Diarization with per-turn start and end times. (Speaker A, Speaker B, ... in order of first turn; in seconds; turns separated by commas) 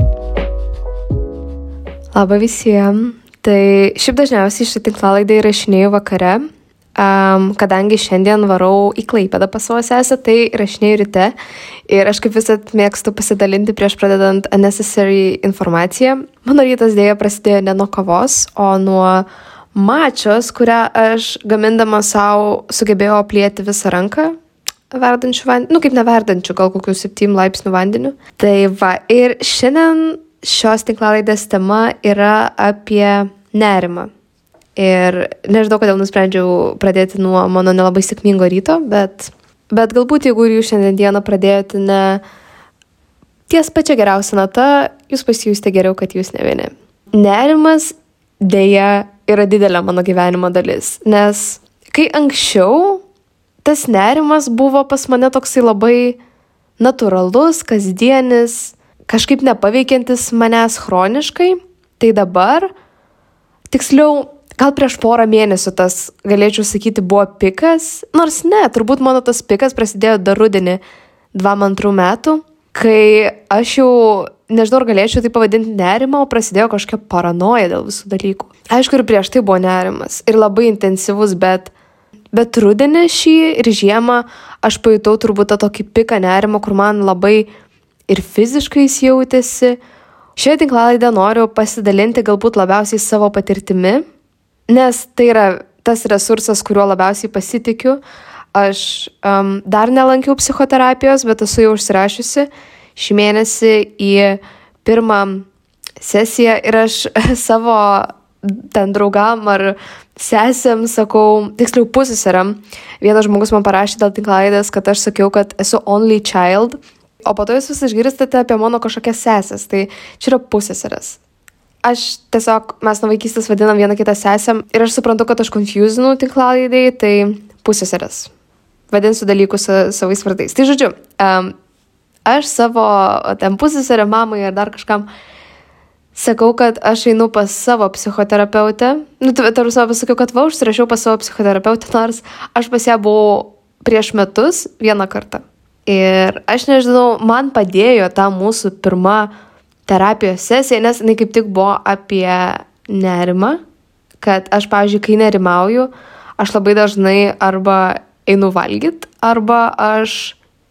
Speaker A: 2.1-11.3, Speaker A: 11.9-24.4, Speaker A: 24.9-34.1, Speaker A: 34.8-42.2, Speaker A: 43.5-53.0, Speaker A: 53.6-56.2, Speaker A: 56.8-62.7, Speaker A: 63.7-70.8, Speaker A: 71.3-81.7, Speaker A: 82.3-87.5, Speaker A: 88.1-89.8, Speaker A: 90.4-94.0, Speaker A: 94.7-98.0, Speaker A: 98.5-105.5, Speaker A: 106.0-121.2, Speaker A: 121.8-128.3, Speaker A: 128.9-131.5, Speaker A: 132.2-135.1, Speaker A: 136.2-149.3, Speaker A: 149.9-153.6, Speaker A: 154.2-160.4